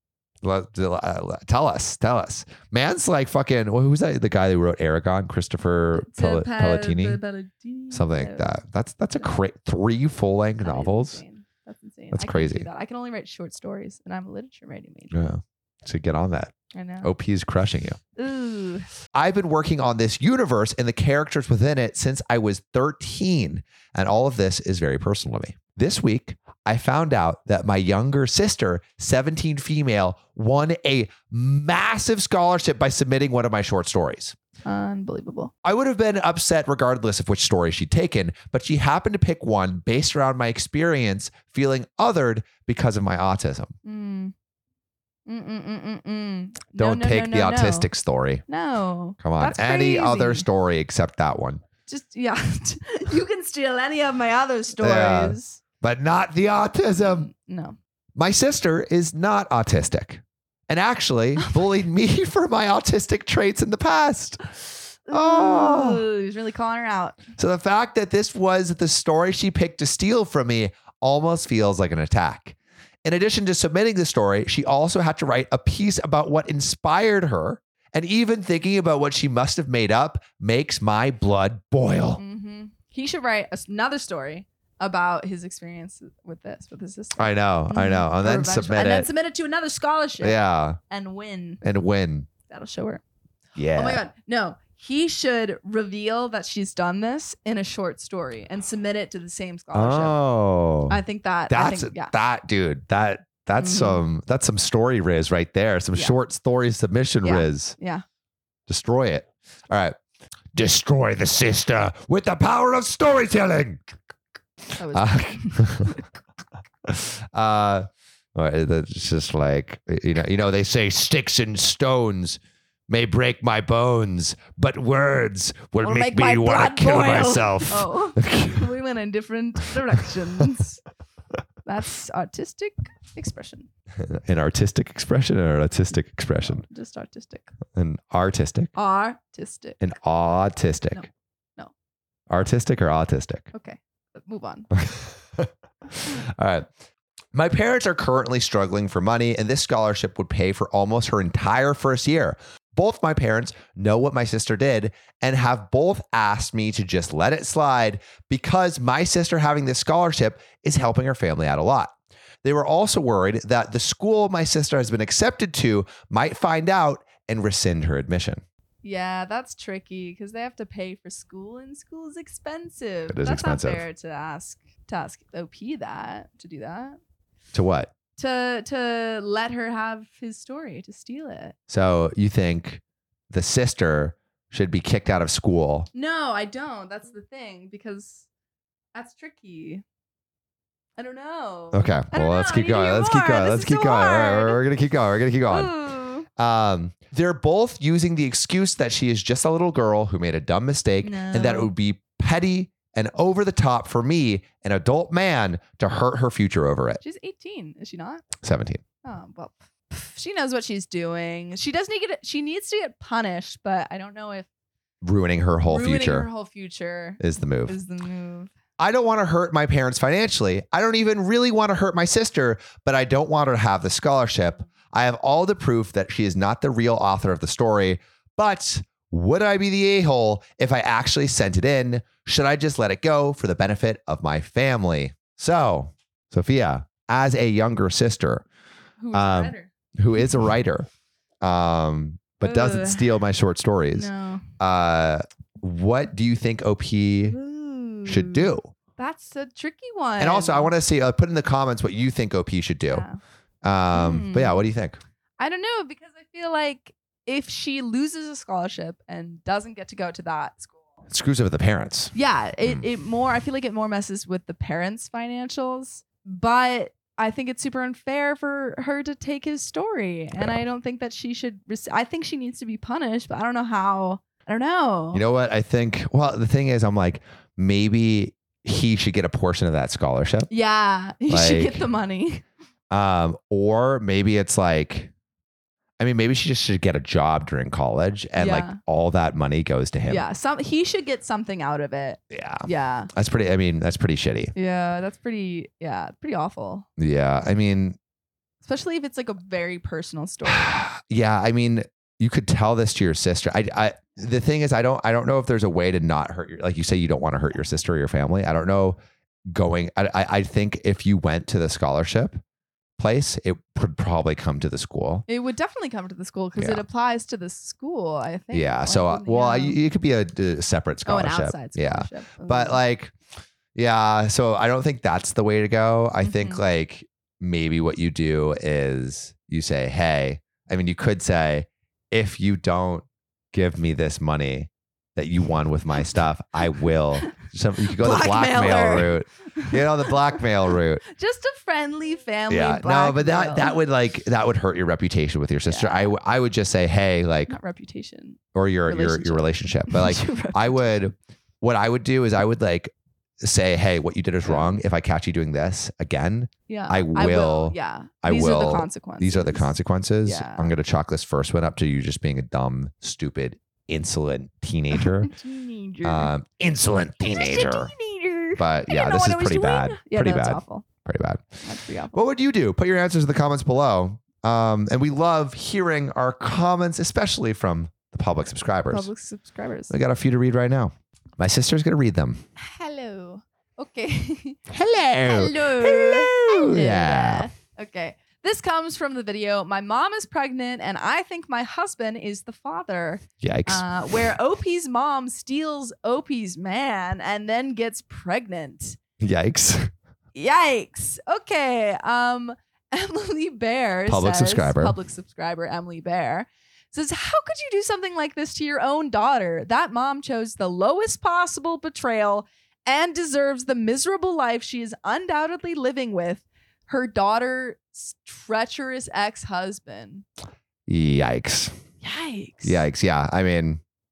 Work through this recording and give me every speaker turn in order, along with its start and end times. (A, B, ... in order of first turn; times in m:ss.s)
0:00.4-0:07.2 A
0:05.9-0:08.6 B
0:07.9-0:11.2 A
0:10.6-0:15.2 B
0:12.1-0:12.7 A
0:15.1-0:18.0 A
0:16.7-0:17.1 B
0:18.2-0:18.9 B
0:19.1-0:34.4 A
0:34.6-0:35.5 B
0:35.6-0:43.8 A
0:43.8-0:44.3 B
0:45.3-0:47.9 B
0:46.8-0:48.4 A
0:48.5-0:50.4 B
0:49.2-0:51.6 A
0:51.9-0:55.6 B
0:54.8-0:57.3 A
0:57.0-0:57.8 B
0:58.2-1:04.6 A
1:05.1-1:06.1 A
1:05.1-1:07.2 B
1:07.4-1:22.2 A
1:22.2-1:30.4 B
1:27.2-1:29.1 A
1:30.2-1:30.8 A
1:30.9-1:31.6 B
1:31.6-1:32.3 A
1:32.5-1:33.0 B
1:33.6-1:34.0 A
1:33.7-1:40.2 B
1:39.7-1:47.8 A
1:40.9-1:42.1 B
1:43.6-1:44.0 B
1:47.2-1:48.0 B
1:48.7-1:50.0 A
1:50.5-1:53.8 A
1:54.8-1:56.0 B
1:54.9-1:56.0 A
1:56.9-2:08.7 A
2:05.8-2:10.8 B
2:11.6-2:13.7 B
2:14.0-2:16.6 A
2:16.4-2:17.5 B
2:17.8-2:18.7 A
2:18.7-2:19.8 B
2:19.8-2:21.0 A
2:20.9-2:21.7 B
2:22.3-2:23.4 A
2:23.5-2:24.7 B
2:24.7-2:25.5 A
2:26.2-2:26.7 A
2:27.3-2:48.4 A
2:48.8-2:57.0 B
2:53.1-2:53.8 A
2:57.5-2:57.9 A
2:58.2-3:01.6 B
3:01.7-3:05.9 A
3:05.9-3:08.2 B
3:08.9-3:09.8 B
3:11.0-3:14.6 B
3:11.7-3:15.7 A
3:15.5-3:16.3 B
3:16.4-3:27.0 A
3:21.0-3:21.7 B
3:27.0-3:28.2 B
3:28.4-3:28.8 A
3:29.0-3:34.5 B
3:35.0-3:36.3 A
3:35.6-3:38.5 B
3:37.2-3:37.8 A
3:38.8-3:58.4 A
3:59.0-3:59.7 B
3:59.1-4:00.9 A
4:01.4-4:07.4 A
4:02.4-4:03.1 B
4:03.9-4:04.4 B
4:07.3-4:10.7 B
4:08.1-4:08.7 A
4:10.2-4:13.1 A
4:12.9-4:13.2 B
4:13.6-4:15.0 A
4:13.9-4:14.6 B
4:15.4-4:20.8 B
4:21.1-4:22.1 A
4:22.1-4:35.2 B
4:30.4-4:30.6 A
4:35.1-4:40.5 A
4:40.5-4:42.4 B
4:41.3-4:41.9 A
4:42.9-4:45.1 A
4:46.0-4:50.2 A
4:48.4-4:48.8 B
4:50.1-4:53.1 B
4:52.3-4:54.5 A
4:54.6-4:56.9 B
4:57.0-4:58.0 A
4:58.6-5:00.8 B
5:00.5-5:09.0 A
5:09.5-5:12.4 A
5:13.0-5:15.2 A
5:15.3-5:19.8 B
5:16.6-5:16.8 A
5:18.5-5:23.1 A
5:21.1-5:22.8 B
5:23.7-5:41.0 A
5:26.2-5:26.6 B
5:37.9-5:40.1 B
5:41.1-5:43.8 B
5:42.5-5:47.6 A
5:45.7-5:46.1 B
5:47.5-5:50.9 B
5:48.6-6:05.3 A
5:54.4-5:54.8 B
5:56.7-5:59.7 B
6:00.2-6:00.7 B
6:05.0-6:06.3 B
6:06.0-6:07.9 A
6:07.2-6:10.8 B
6:08.6-6:11.6 A
6:11.6-6:12.2 B
6:12.1-6:19.1 A
6:18.9-6:19.9 B
6:19.9-6:22.4 A
6:22.6-6:24.6 B
6:24.7-6:27.5 A
6:25.2-6:39.0 B
6:33.4-6:34.3 A
6:39.2-6:39.9 A
6:40.4-7:00.2 B
6:44.1-6:44.9 A
7:00.9-7:01.8 A
7:02.0-7:02.8 B
7:02.6-7:03.8 A